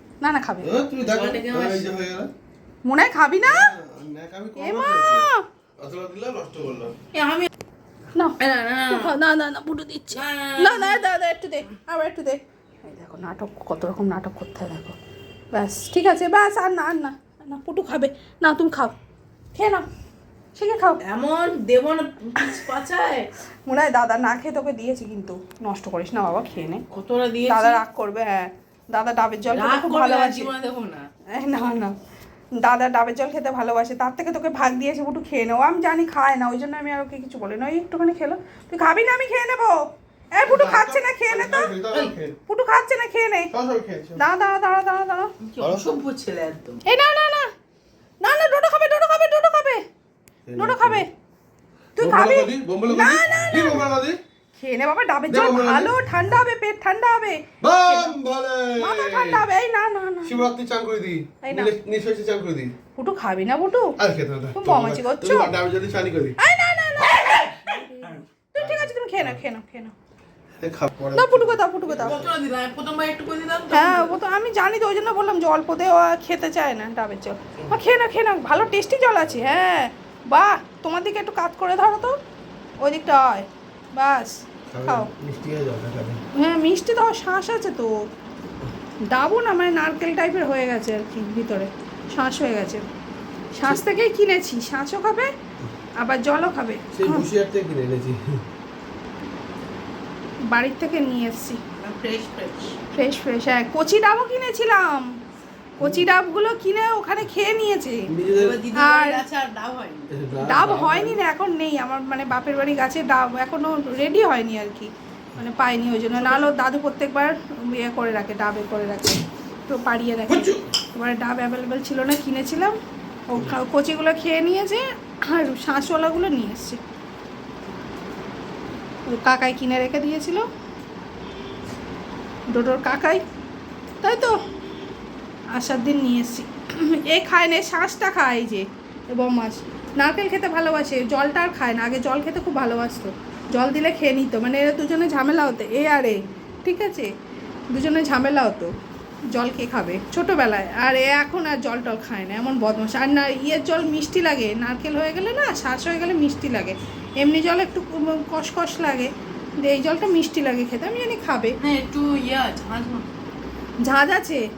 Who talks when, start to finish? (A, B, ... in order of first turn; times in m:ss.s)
0:00.2-0:00.7 A
0:00.6-0:02.3 B
0:01.0-0:01.9 C
0:02.8-0:03.7 A
0:03.4-0:07.0 B
0:04.6-0:05.4 A
0:07.1-0:07.5 C
0:08.4-0:09.1 C
0:08.9-0:15.0 A
0:10.1-0:11.0 C
0:15.5-0:18.9 A
0:19.5-0:19.8 A
0:20.6-0:21.0 A
0:21.0-0:23.3 C
0:23.6-0:26.8 A
0:26.9-0:27.8 C
0:27.4-0:30.5 A
0:29.5-0:31.1 C
0:31.3-0:31.9 A
0:32.5-0:39.8 A
0:40.3-0:41.8 A
0:40.4-0:42.3 B
0:42.5-0:43.5 A
0:43.5-0:44.2 B
0:44.2-0:45.3 A
0:45.4-0:46.8 C
0:45.6-0:45.8 B
0:46.8-0:47.5 A
0:48.2-0:49.8 A
0:50.4-0:51.0 B
0:50.6-0:51.1 A
0:52.0-0:53.9 A
0:52.0-0:54.2 B
0:54.5-0:58.1 A
0:55.3-0:55.9 B
0:57.6-0:59.4 B
0:58.8-1:00.4 A
1:00.2-1:02.7 B
1:01.4-1:01.7 A
1:02.9-1:04.0 A
1:04.0-1:06.4 B
1:04.5-1:05.5 A
1:06.4-1:09.9 A
1:07.6-1:08.2 C
1:08.6-1:09.4 B
1:10.6-1:12.4 B
1:11.1-1:12.2 A
1:12.0-1:14.2 C
1:13.7-1:22.2 A
1:22.8-1:25.1 A
1:24.7-1:26.2 B
1:26.3-1:27.9 A
1:29.1-1:32.8 A
1:33.5-1:35.3 A
1:36.0-1:37.3 A
1:36.9-1:38.4 B
1:40.5-1:41.6 A
1:41.7-1:42.8 C
1:42.9-1:45.1 A
1:45.8-1:48.1 A
1:45.8-1:46.1 B
1:48.1-1:48.6 B
1:48.3-1:50.1 C
1:48.8-1:49.2 A
1:50.1-1:51.2 B
1:50.4-2:02.8 A
1:56.1-1:56.6 C
2:00.3-2:00.6 B
2:03.3-2:06.8 A
2:09.1-2:10.4 A
2:12.5-2:13.2 A
2:14.0-2:14.4 A
2:15.5-2:27.1 A
2:27.7-2:28.7 A
2:29.3-2:41.6 A
2:41.6-2:43.1 C
2:43.8-2:44.4 A